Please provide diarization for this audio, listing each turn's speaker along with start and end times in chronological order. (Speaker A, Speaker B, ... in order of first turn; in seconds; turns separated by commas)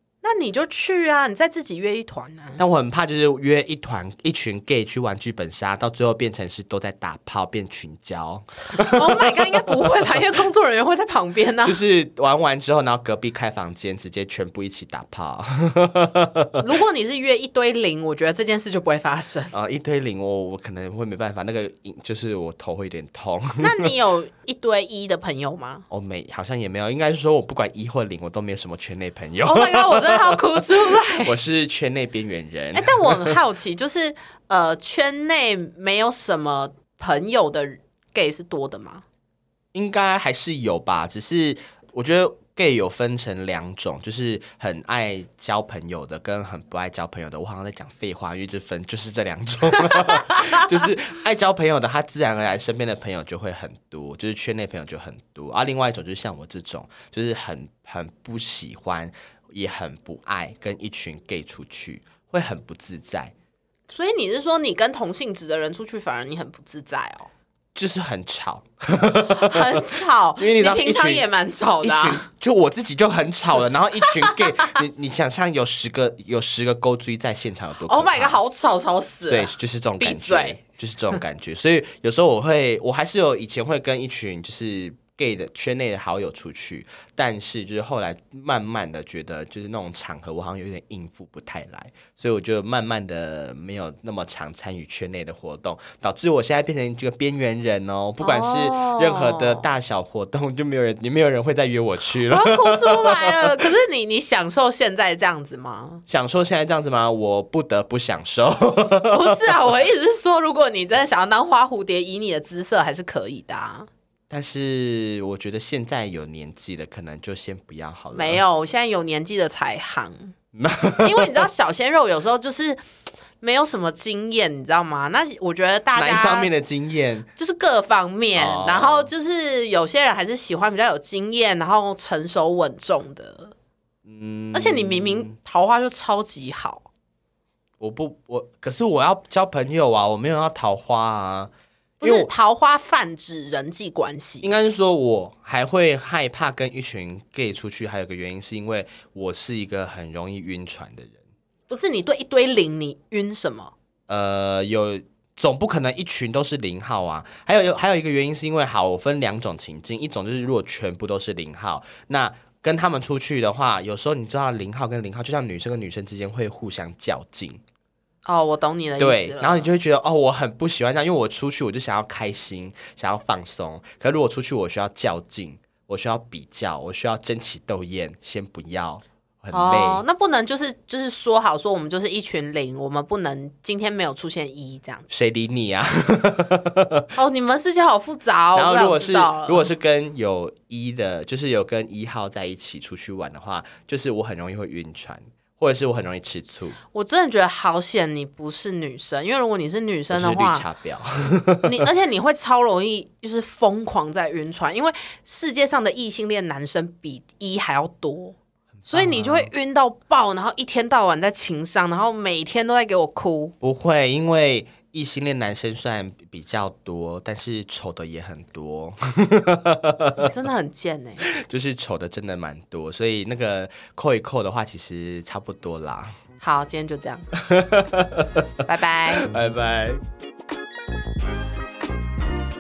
Speaker A: 0.2-2.6, Speaker B: 2.6-10.2, Speaker A: 8.8-11.8, Speaker B: 11.6-16.6, Speaker A: 16.6-19.5, Speaker B: 19.5-23.9, Speaker A: 23.6-25.9, Speaker B: 25.9-33.4, Speaker A: 29.5-31.3, Speaker A: 32.7-39.0, Speaker B: 39.7-63.3, Speaker A: 49.9-50.3, Speaker A: 63.9-67.3, Speaker B: 67.8-69.8, Speaker A: 69.3-72.2, Speaker B: 70.4-71.2, Speaker B: 71.8-78.4, Speaker A: 74.3-74.7, Speaker A: 77.8-80.6, Speaker B: 79.3-103.7, Speaker A: 98.2-99.7, Speaker A: 102.2-106.0, Speaker B: 106.1-109.4, Speaker A: 109.1-113.9, Speaker B: 114.3-118.4, Speaker A: 118.1-120.3, Speaker B: 120.5-121.4, Speaker A: 121.0-122.8, Speaker A: 123.4-126.5, Speaker B: 126.0-127.3, Speaker A: 127.4-133.5, Speaker B: 128.4-129.1, Speaker B: 134.0-135.3, Speaker A: 134.5-136.8, Speaker B: 137.8-141.5, Speaker B: 142.0-142.3, Speaker A: 142.0-144.5, Speaker B: 144.4-151.2, Speaker A: 151.7-153.7, Speaker B: 154.1-167.6, Speaker A: 168.2-169.7, Speaker B: 169.0-180.0, Speaker A: 179.5-185.1, Speaker B: 185.1-187.1, Speaker A: 187.2-189.7, Speaker B: 188.5-196.8, Speaker A: 196.9-200.7, Speaker B: 200.1-201.9, Speaker A: 201.6-208.4, Speaker B: 208.8-209.5, Speaker A: 208.9-213.5, Speaker B: 213.6-220.3, Speaker A: 220.2-221.2, Speaker B: 221.2-226.1, Speaker A: 226.4-227.3, Speaker B: 227.3-228.4, Speaker A: 228.7-229.2, Speaker B: 229.1-230.0